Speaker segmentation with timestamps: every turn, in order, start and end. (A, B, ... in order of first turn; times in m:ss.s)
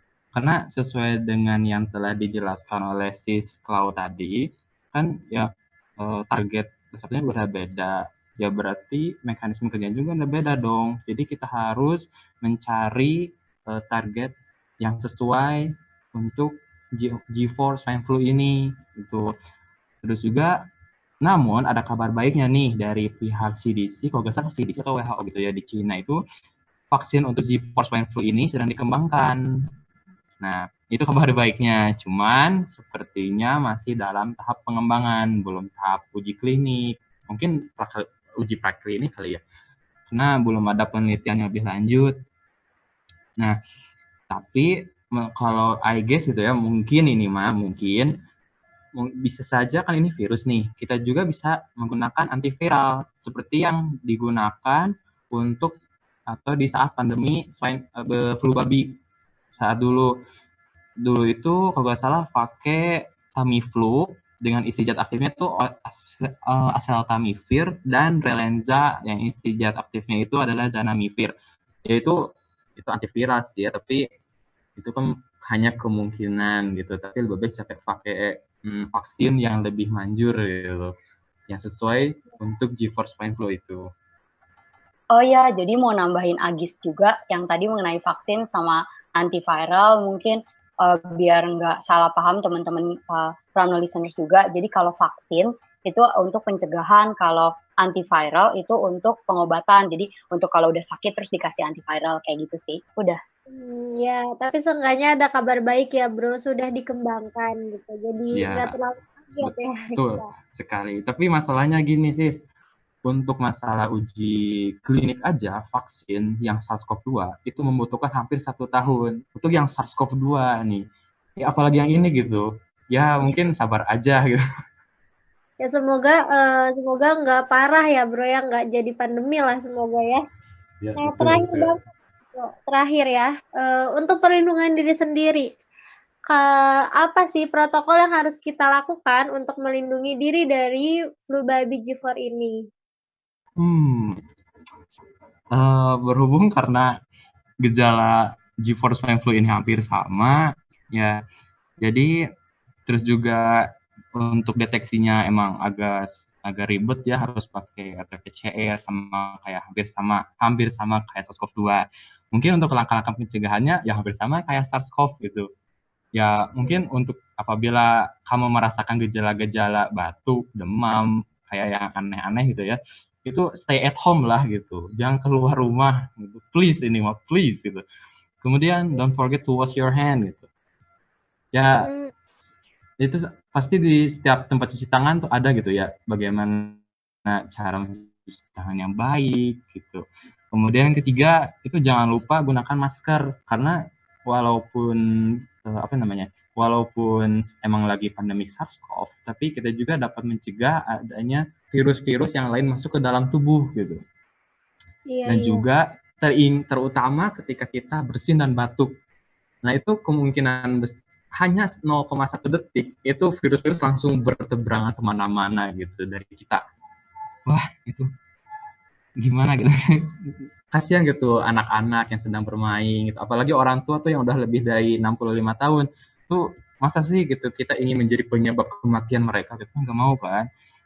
0:00.3-0:19.3 A
0:20.0-0:20.6 A
0:21.2-0:26.2 A
0:26.9-0:29.4 A
0:30.4-0:39.4 A
0:40.1-0:42.1 A
0:44.3-0:48.1 A
0:49.0-0:55.7 A
0:56.3-0:58.9 A
0:59.6-1:00.1 A
1:01.0-1:11.3 A
1:11.9-1:12.2 A
1:12.8-1:14.0 A
1:14.8-1:20.9 A
1:21.5-1:23.8 A
1:25.1-1:43.2 B
1:43.5-1:50.3 C
1:48.3-1:48.7 A
1:49.4-1:52.4 A
1:53.0-2:00.8 A
2:01.4-2:04.4 A
2:05.6-2:10.2 C
2:10.8-2:11.7 A
2:11.0-2:11.8 C
2:12.4-2:15.5 C
2:16.3-2:22.6 C
2:23.6-2:24.2 A
2:25.5-2:26.9 A
2:27.6-2:30.4 A
2:31.8-2:32.1 A
2:32.9-2:33.6 A
2:34.1-2:45.5 A
2:46.1-2:57.8 A
2:58.4-3:00.5 A
3:01.5-3:01.9 A
3:01.8-3:02.1 C
3:03.0-3:15.0 A
3:15.6-3:24.0 A
3:25.1-3:25.6 C
3:25.3-3:28.9 A
3:29.6-3:36.6 A
3:37.5-3:38.1 A
3:39.2-3:50.4 A